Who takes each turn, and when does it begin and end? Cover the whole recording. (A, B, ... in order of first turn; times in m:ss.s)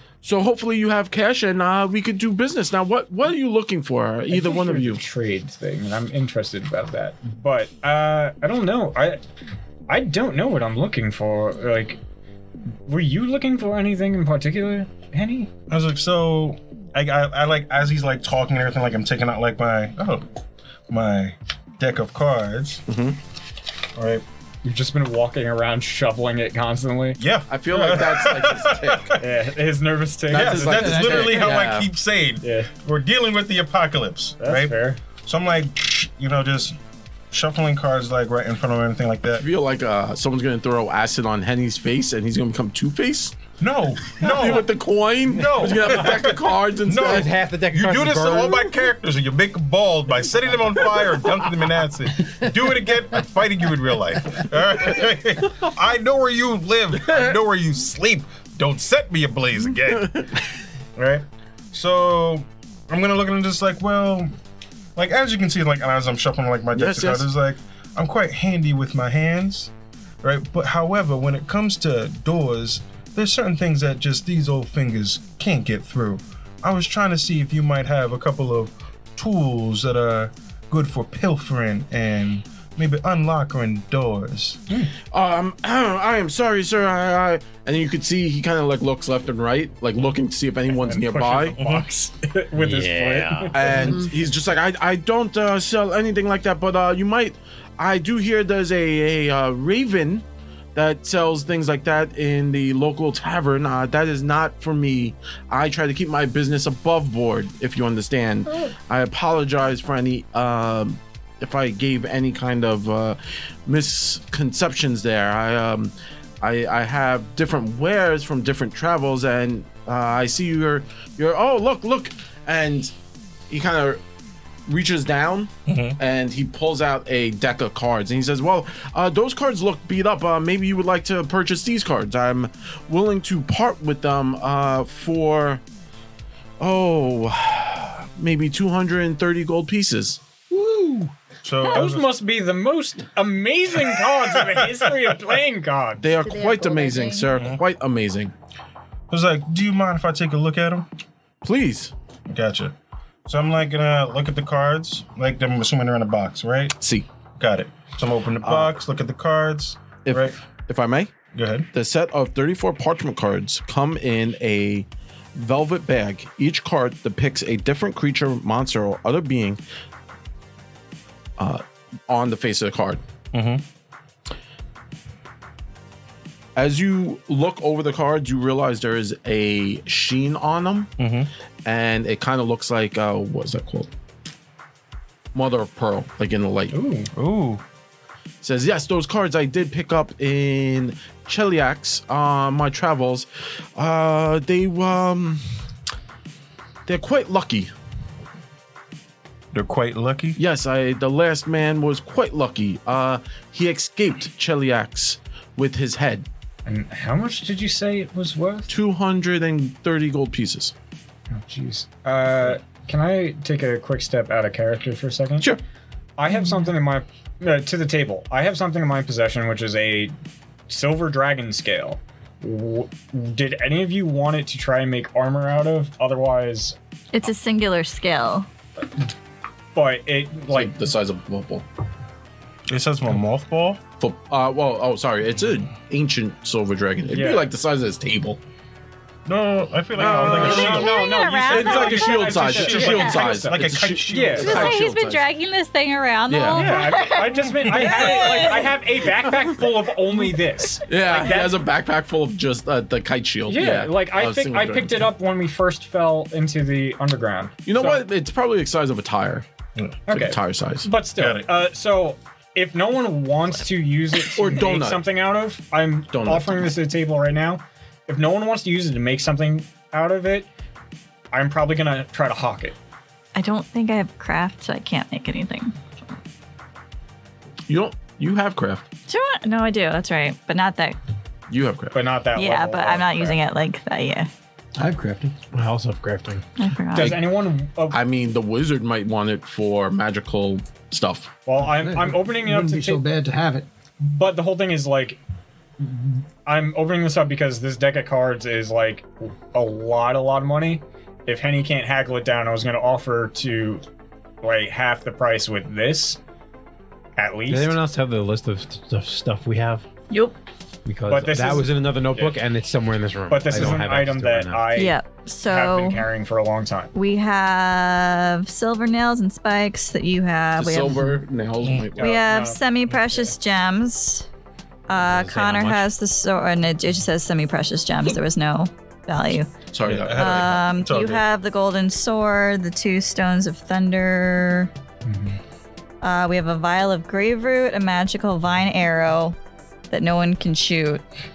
0:00.2-0:05.0 A
0:04.3-0:09.2 B
0:09.9-0:12.0 B
0:12.9-0:15.5 B
0:15.7-0:20.2 C
0:20.9-0:22.8 C
0:22.9-0:23.2 A
0:24.0-0:24.2 C
0:24.6-0:27.2 B
0:27.2-0:29.3 C
0:27.5-0:29.2 A
0:29.2-0:31.5 B
0:30.3-0:31.9 A
0:30.3-0:36.8 C
0:32.4-0:32.7 B
0:34.4-0:35.0 B
0:37.3-0:39.5 C
0:39.4-0:43.4 A
0:43.6-0:44.7 C
0:44.2-0:47.3 A
0:45.3-1:00.3 C
0:47.0-0:48.7 D
0:57.0-0:57.4 A
0:59.8-1:00.4 A
1:01.0-1:04.3 C
1:05.0-1:09.7 C
1:06.7-1:07.3 A
1:10.2-1:24.6 C
1:25.1-1:31.6 A
1:30.7-1:33.8 B
1:31.6-1:31.9 C
1:32.6-1:33.9 D
1:33.5-2:02.9 A
1:33.7-1:34.1 E
2:03.5-2:04.0 A
2:04.7-2:15.6 A
2:05.7-2:06.0 C
2:16.6-2:20.2 A
2:20.5-2:21.1 E
2:21.4-2:22.1 C
2:21.6-2:26.1 B
2:26.0-2:28.3 A
2:26.4-2:27.1 F
2:29.1-2:30.9 C
2:31.4-2:31.9 A
2:32.3-2:32.8 C
2:33.3-2:36.8 C
2:36.8-2:37.1 A
2:37.4-2:40.4 C
2:38.4-2:38.8 A
2:40.0-2:41.1 A
2:41.3-2:41.7 C
2:41.7-2:49.6 A
2:51.4-2:53.0 A
2:53.3-2:53.6 C
2:56.6-3:00.9 A
3:01.0-3:01.3 C
3:01.6-3:03.9 A
3:05.3-3:06.8 A
3:06.7-3:07.1 B
3:07.2-3:07.6 C
3:08.4-3:15.4 A
3:16.9-3:17.7 A
3:19.5-3:20.4 C
3:20.4-3:26.3 A
3:26.7-3:28.7 B
3:28.7-3:30.7 A
3:31.3-3:35.5 B
3:36.2-3:40.1 B
3:40.7-3:46.8 B
3:47.1-3:48.5 F
3:49.8-3:50.8 B
3:50.5-3:51.7 A
3:52.7-3:53.8 C
3:54.0-3:58.4 A
3:57.1-3:57.5 B
3:59.3-4:04.8 C
4:00.0-4:04.8 B
4:00.0-4:05.3 A
4:00.2-4:03.2 F
4:04.4-4:08.8 F
4:06.3-4:06.9 A
4:06.5-4:11.6 B
4:07.6-4:07.9 C
4:10.8-4:15.1 A
4:13.5-4:18.0 B
4:17.6-4:19.5 A
4:19.8-4:20.0 C
4:20.1-4:30.5 B
4:20.1-4:20.9 A
4:21.2-4:21.5 C
4:24.3-4:25.0 A
4:26.1-4:26.7 A
4:31.3-4:32.8 B
4:33.4-4:35.8 F
4:37.7-4:38.8 A
4:39.1-4:41.0 F
4:41.5-4:42.0 A
4:41.9-4:43.4 B
4:42.4-4:44.3 F
4:44.8-4:45.4 E
4:45.5-4:46.4 D
4:46.6-4:47.2 F
4:46.9-4:48.0 B
4:47.9-4:51.3 A
4:51.5-4:53.0 B
4:51.6-4:53.7 E
4:54.0-4:55.2 B
4:55.8-5:03.8 B
5:04.4-5:06.2 B
5:07.2-5:07.8 B
5:07.5-5:09.9 D
5:10.1-5:10.4 F
5:10.8-5:14.7 D
5:11.1-5:12.4 B
5:13.3-5:16.9 B
5:14.8-5:16.0 F
5:17.0-5:21.2 F
5:20.6-5:22.2 A
5:21.6-5:21.9 C
5:22.0-5:23.4 B
5:22.0-5:24.3 F
5:24.9-5:29.5 F
5:25.0-5:25.8 D
5:29.7-5:30.6 A
5:29.8-5:31.2 C
5:30.1-5:34.7 F
5:35.0-5:35.4 B
5:36.0-5:39.4 F
5:39.9-5:41.0 F